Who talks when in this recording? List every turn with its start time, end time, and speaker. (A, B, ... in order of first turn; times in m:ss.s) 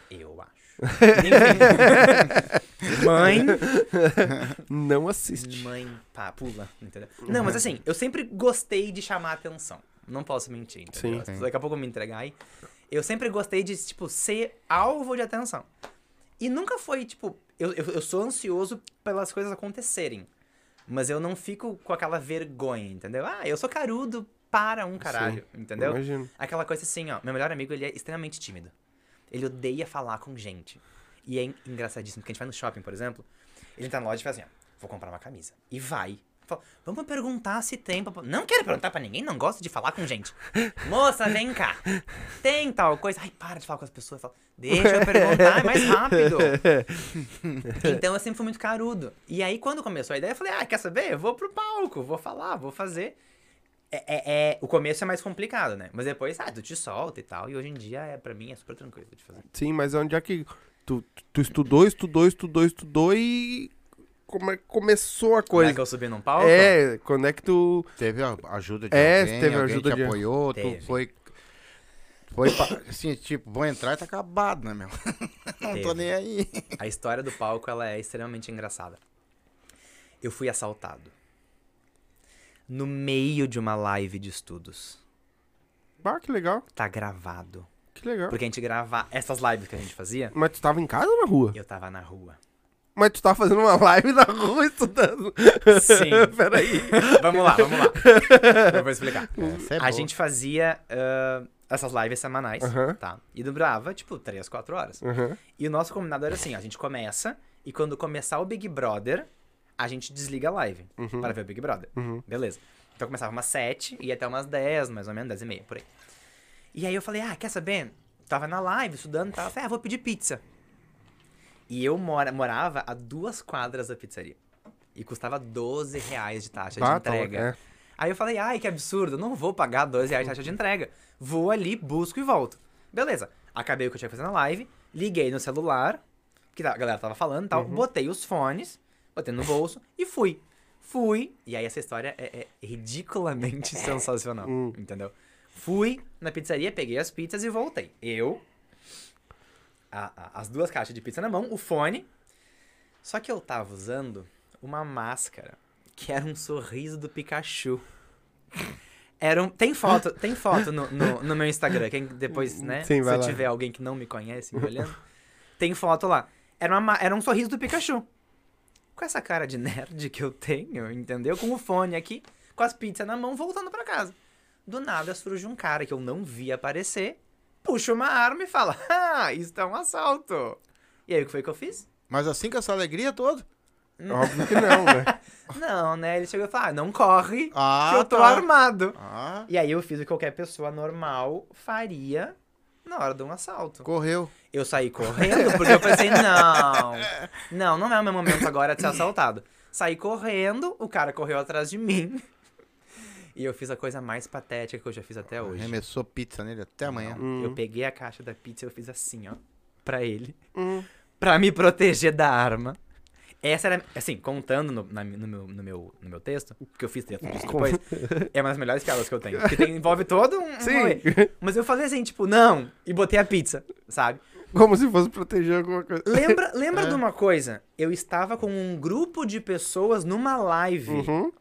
0:00.1-0:03.7 A
0:00.8-0:05.7 B
0:05.4-0:12.4 A
0:07.3-0:07.6 B
0:10.9-0:11.2 B
0:12.9-0:15.7 A
0:16.4-0:20.3 A
0:20.9-0:28.7 A
0:25.0-0:26.3 B
0:29.3-0:33.2 A
0:33.8-0:46.6 A
0:44.7-0:47.2 B
0:47.7-0:53.2 A
0:47.7-0:48.0 B
0:53.9-0:59.4 A
0:59.5-1:03.7 B
1:04.3-1:05.8 B
1:05.5-1:06.8 A
1:06.4-1:07.9 B
1:08.0-1:11.3 C
1:08.9-1:10.2 B
1:10.5-1:11.0 A
1:12.3-1:16.8 C
1:15.7-1:16.1 A
1:16.8-1:19.0 A
1:20.2-1:21.1 A
1:22.7-1:25.0 A
1:26.0-1:26.6 B
1:26.7-1:27.7 A
1:28.0-1:28.4 B
1:28.3-1:30.4 A
1:30.3-1:31.6 B
1:31.5-1:32.4 A
1:33.0-1:38.9 B
1:35.7-1:45.0 A
1:39.4-1:40.1 C
1:42.6-1:43.0 B
1:45.0-1:45.4 B
1:45.6-1:55.9 A
1:51.0-1:51.3 B
1:52.0-1:52.2 B
1:56.7-2:00.4 A
2:01.7-2:04.4 A
2:05.0-2:16.0 A
2:06.8-2:07.6 B
2:16.5-2:28.4 A
2:17.5-2:17.8 B
2:24.4-2:24.8 B
2:29.9-2:32.1 A
2:33.0-2:37.8 A
2:39.2-2:45.0 A
2:40.6-2:41.1 B
2:42.4-2:43.4 B
2:44.6-2:44.9 B
2:45.6-2:48.1 A
2:49.0-2:54.2 A
2:54.7-3:01.9 A
3:02.1-3:03.4 C
3:04.0-3:13.9 A
3:04.1-3:05.1 B
3:07.5-3:09.5 C
3:13.8-3:14.3 C
3:14.5-3:22.2 A
3:23.4-3:25.8 A
3:25.4-3:27.2 C
3:26.8-3:30.4 A
3:27.2-3:27.6 B
3:30.6-3:30.9 B
3:31.2-3:32.8 A
3:33.4-3:44.2 A
3:37.3-3:38.3 B
3:39.4-3:39.7 B
3:40.6-3:41.3 B
3:44.5-3:47.0 B
3:46.0-3:51.1 A
3:50.9-3:51.3 B